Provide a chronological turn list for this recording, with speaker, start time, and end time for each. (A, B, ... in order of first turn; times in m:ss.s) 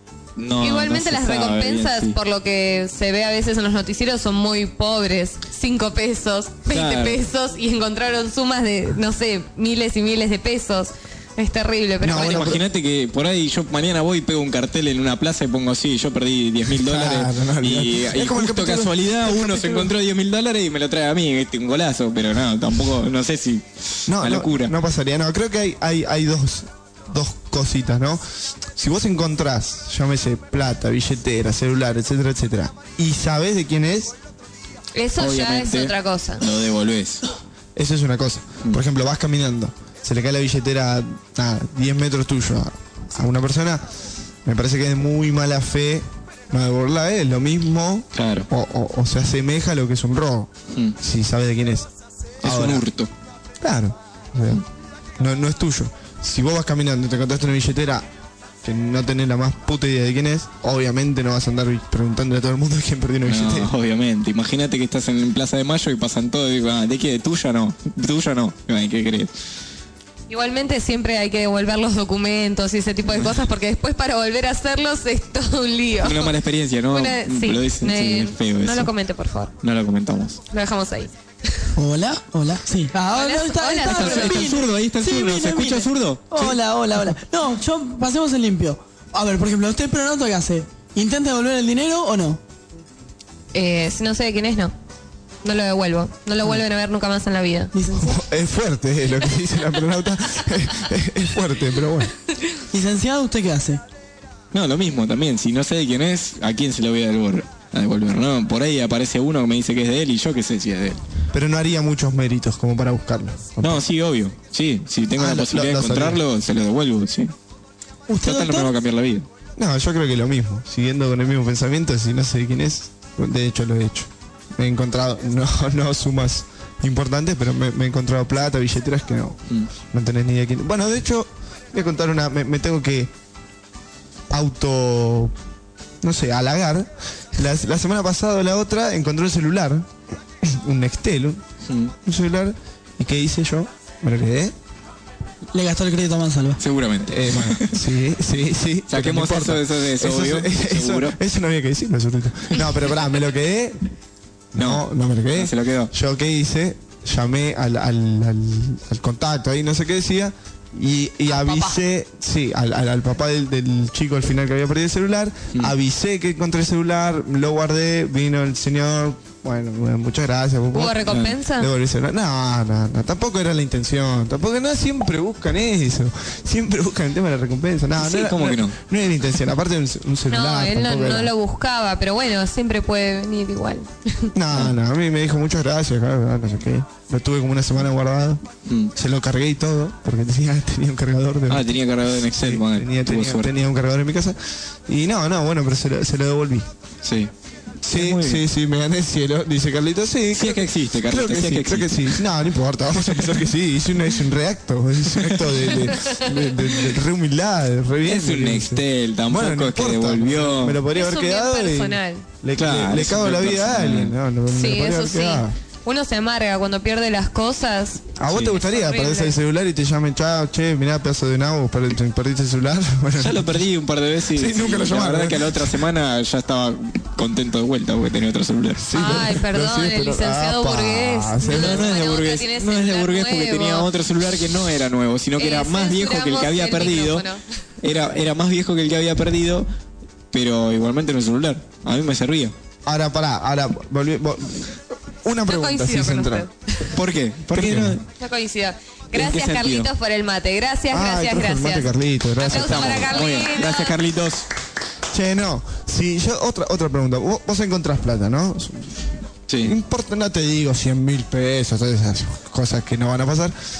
0:00.4-0:02.2 A
0:00.6-0:12.6 B
0:06.7-0:07.2 A
0:12.0-0:12.6 C
0:12.1-0:24.7 A
0:16.7-0:19.9 C
0:24.1-0:28.2 C
0:28.7-0:34.1 C
0:34.9-0:36.4 B
0:35.2-0:37.2 A
0:37.7-0:43.8 C
0:44.4-0:51.9 C
0:48.1-0:48.5 A
0:52.4-0:52.8 C
0:52.4-0:53.1 A
0:53.6-0:54.6 C
0:55.2-0:58.0 C
0:58.6-1:03.7 C
1:03.2-1:09.3 A
1:10.3-1:16.3 B
1:16.0-1:18.9 A
1:16.9-1:19.5 B
1:19.6-1:20.4 A
1:20.5-1:21.7 B
1:21.8-1:32.4 D
1:23.1-1:24.5 B
1:23.8-1:27.1 A
1:33.5-1:34.7 B
1:35.4-1:37.7 B
1:37.7-1:38.2 D
1:37.9-1:42.1 C
1:42.7-1:43.8 D
1:44.5-1:51.0 A
1:51.3-1:53.8 C
1:53.6-1:57.3 A
1:55.2-1:56.2 C
1:58.1-1:58.7 D
1:58.2-1:59.3 A
1:59.6-2:09.4 C
2:09.9-2:13.1 C
2:14.3-2:15.3 C
2:16.0-2:19.9 C
2:20.4-2:21.4 C
2:21.7-2:21.9 A
2:22.0-2:24.5 C
2:25.5-2:26.6 D
2:26.6-2:27.8 A
2:27.1-2:33.8 C
2:28.9-2:31.1 A
2:34.5-3:01.3 C
2:34.6-2:35.9 A
2:41.3-2:41.6 B
2:50.7-2:51.7 B
2:51.1-2:51.3 A
2:58.0-2:58.8 A
3:00.3-3:04.3 B
3:04.3-3:08.4 C
3:08.7-3:08.9 A
3:08.9-3:16.7 C
3:11.5-3:13.5 A
3:17.0-3:17.3 A
3:17.8-3:35.5 C
3:17.8-3:18.4 A
3:20.3-3:22.2 A
3:23.1-3:23.4 A
3:25.1-3:26.4 A
3:28.0-3:30.8 A
3:30.9-3:32.2 B
3:32.6-3:34.1 A
3:34.5-3:39.3 B
3:38.2-3:43.6 C
3:43.2-3:49.2 A
3:44.3-3:45.8 C
3:48.8-3:51.9 C
3:48.9-3:53.9 B
3:51.5-3:57.2 A
3:55.4-3:57.4 B
3:57.8-3:59.7 A
4:00.3-4:02.5 A
4:02.8-4:04.7 C
4:05.2-4:06.5 C
4:05.5-4:06.5 B
4:06.9-4:08.0 A
4:07.5-4:08.0 C
4:08.2-4:14.0 B
4:09.1-4:09.9 A
4:10.9-4:13.3 C
4:12.5-4:14.4 A
4:15.1-4:19.1 C
4:19.5-4:19.7 A
4:19.6-4:23.5 C